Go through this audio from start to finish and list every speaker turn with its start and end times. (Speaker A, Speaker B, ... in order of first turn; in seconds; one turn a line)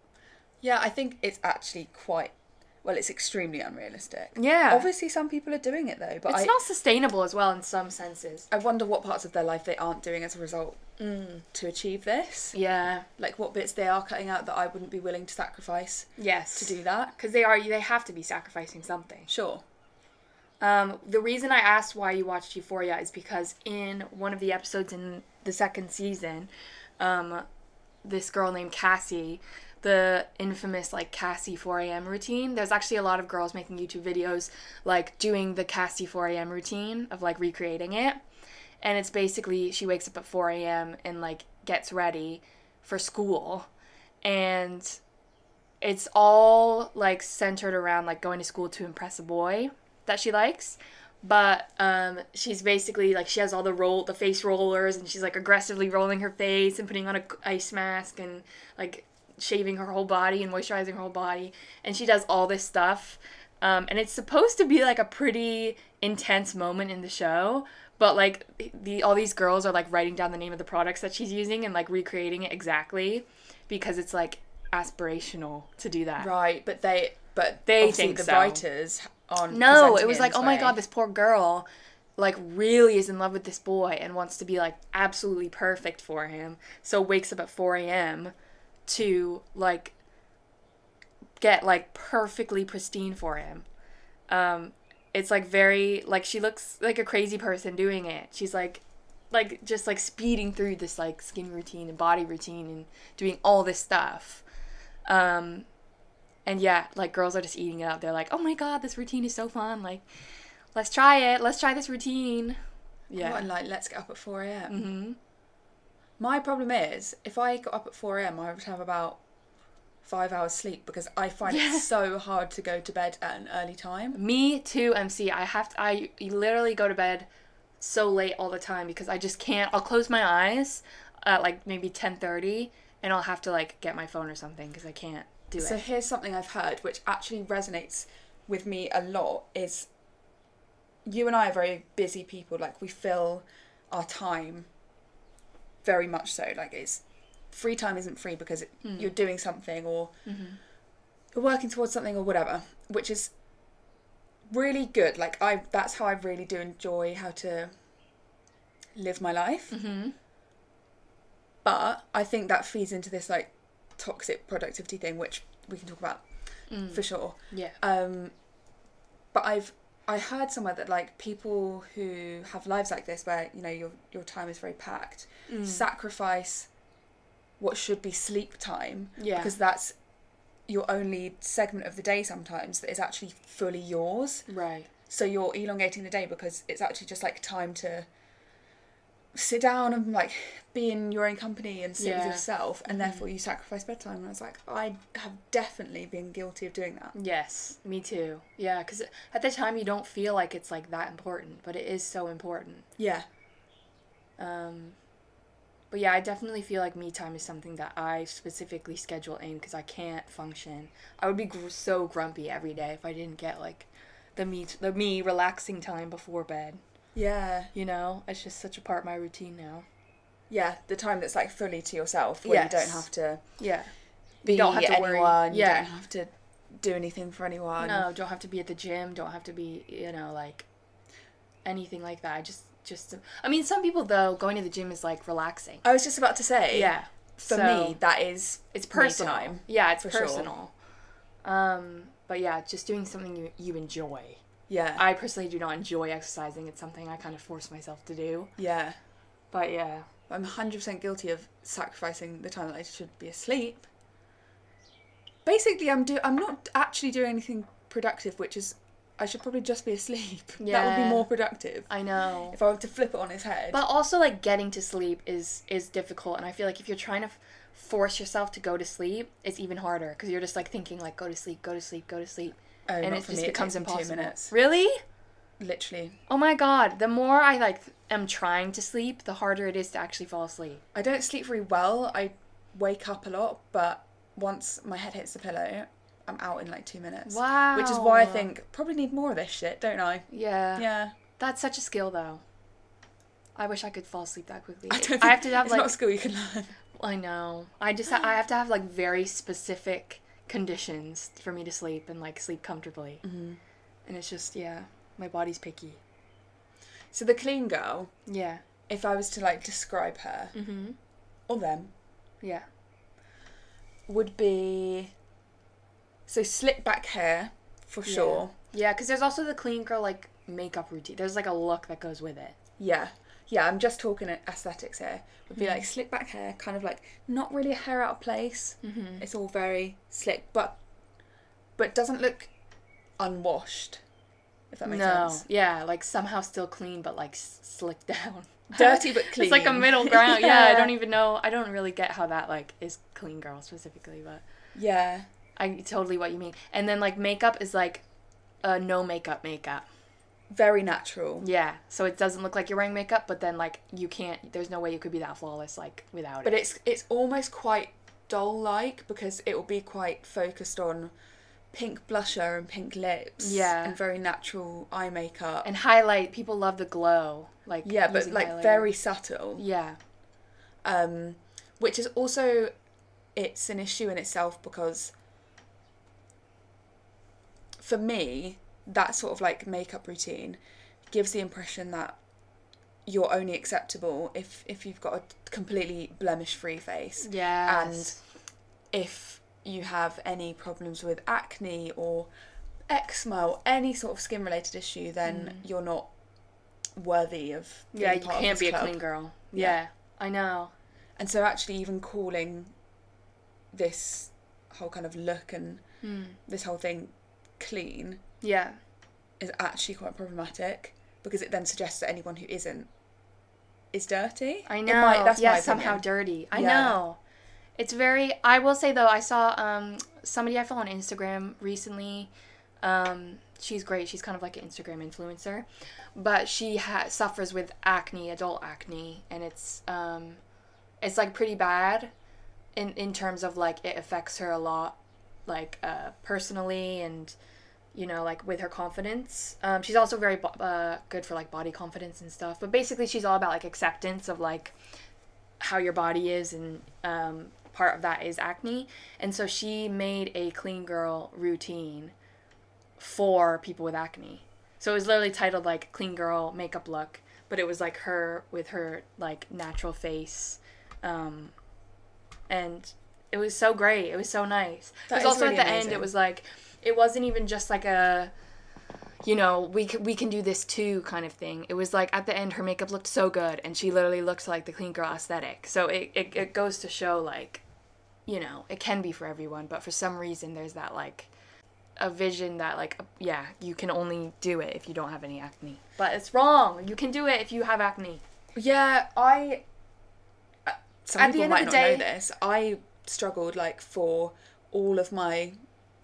Speaker A: 0.6-6.5
Speaker B: 4.3-4.9
Speaker B: 6.3-8.5
Speaker A: 8.5-10.8
Speaker B: 11.0-11.4
Speaker A: 11.5-12.6
Speaker B: 12.5-13.1
Speaker A: 13.2-17.2
Speaker B: 16.2-19.3
Speaker A: 19.3-19.6
Speaker B: 20.6-27.4
Speaker B: 28.0-38.2
Speaker B: 38.8-43.7
Speaker B: 44.2-45.0
Speaker B: 45.8-76.3
Speaker A: 76.2-80.8
Speaker B: 77.7-78.6
Speaker B: 79.5-88.3
Speaker B: 88.9-90.0
Speaker B: 91.4-93.7
Speaker B: 94.3-104.4
Speaker B: 105.1-105.7
Speaker B: 106.5-110.0
Speaker B: 110.8-113.5
Speaker A: 113.2-114.8
Speaker B: 114.7-115.2
Speaker A: 116.2-119.2
Speaker A: 120.0-124.2
Speaker B: 121.5-121.9
Speaker B: 124.1-127.3
Speaker B: 127.8-135.8
Speaker A: 135.6-139.9
Speaker A: 141.1-144.7
Speaker A: 145.8-150.2
Speaker B: 148.8-149.1
Speaker B: 150.3-150.6
Speaker A: 151.3-153.3
Speaker A: 154.5-157.7
Speaker A: 158.9-159.8
Speaker B: 159.7-160.2
Speaker A: 161.6-166.2
Speaker B: 166.7-167.8
Speaker A: 166.9-168.3
Speaker A: 169.3-176.7
Speaker B: 175.5-175.8
Speaker A: 177.6-180.0
Speaker B: 179.2-179.5
Speaker A: 180.7-184.4
Speaker B: 184.5-184.9
Speaker A: 185.1-188.1
Speaker A: 189.3-197.2
Speaker B: 192.0-193.3
Speaker B: 197.2-202.9
Speaker A: 203.0-203.3
Speaker B: 204.4-205.0
Speaker B: 205.9-216.8
Speaker A: 217.2-217.7
Speaker B: 217.7-219.9
Speaker A: 220.5-223.4
Speaker B: 222.4-223.1
Speaker B: 223.6-223.9
Speaker B: 224.4-225.9
Speaker A: 224.4-228.1
Speaker B: 227.8-230.7
Speaker B: 231.7-235.8
Speaker A: 235.8-240.5
Speaker B: 236.7-238.0
Speaker B: 238.7-240.7
Speaker B: 241.4-244.4
Speaker A: 244.7-245.0
Speaker B: 245.0-248.5
Speaker A: 248.6-249.0
Speaker B: 249.5-250.1
Speaker A: 250.3-253.9
Speaker A: 255.4-261.9
Speaker B: 260.6-261.3
Speaker B: 261.9-262.6
Speaker A: 262.5-263.8
Speaker B: 263.7-275.0
Speaker A: 272.9-274.5
Speaker A: 275.6-276.2
Speaker B: 276.3-280.8
Speaker A: 280.9-291.1
Speaker B: 287.3-288.5
Speaker B: 290.3-290.9
Speaker B: 291.4-292.4
Speaker B: 293.6-295.9
Speaker A: 294.9-296.8
Speaker B: 297.0-303.2
Speaker A: 303.2-303.6
Speaker B: 304.1-306.0
Speaker A: 307.1-308.1
Speaker B: 308.3-308.6
Speaker A: 308.9-310.6
Speaker B: 310.5-311.0
Speaker A: 311.5-311.9
Speaker A: 314.1-315.1
Speaker A: 316.3-318.5
Speaker B: 318.1-322.6
Speaker A: 322.8-330.8
Speaker B: 325.6-325.8
Speaker B: 328.8-329.2
Speaker A: 331.8-332.5
Speaker A: 333.2-334.0
Speaker A: 334.7-335.4
Speaker B: 334.9-344.4
Speaker A: 338.7-340.9
Speaker A: 344.8-345.3
Speaker B: 345.6-348.0
Speaker B: 348.6-349.9
Speaker A: 350.5-351.5
Speaker B: 351.4-356.6
Speaker A: 356.4-361.1
Speaker A: 361.7-365.7
Speaker B: 363.4-364.0
Speaker B: 365.6-368.9
Speaker A: 367.8-369.6
Speaker B: 369.6-370.0
Speaker A: 370.8-372.7
Speaker A: 373.4-375.1
Speaker A: 377.8-380.6
Speaker A: 381.1-382.2
Speaker A: 383.1-388.2
Speaker B: 387.2-388.2
Speaker A: 388.9-392.3
Speaker A: 392.9-396.1
Speaker B: 395.2-395.6
Speaker A: 397.0-399.0
Speaker B: 397.9-400.7
Speaker A: 401.2-402.7
Speaker A: 403.7-405.8
Speaker B: 406.0-406.4
Speaker A: 406.5-408.2
Speaker B: 408.4-408.8
Speaker A: 409.4-412.9
Speaker A: 413.9-417.0
Speaker B: 414.7-417.2
Speaker B: 417.8-422.3
Speaker B: 422.8-430.4
Speaker B: 431.0-432.1
Speaker B: 432.8-437.4
Speaker B: 437.9-444.8
Speaker B: 445.6-452.1
Speaker B: 453.0-461.5
Speaker B: 462.5-468.3
Speaker A: 465.1-466.1
Speaker B: 469.2-477.6
Speaker B: 478.3-481.3
Speaker B: 482.0-488.2
Speaker A: 488.6-489.6
Speaker A: 490.7-495.6
Speaker B: 491.2-492.1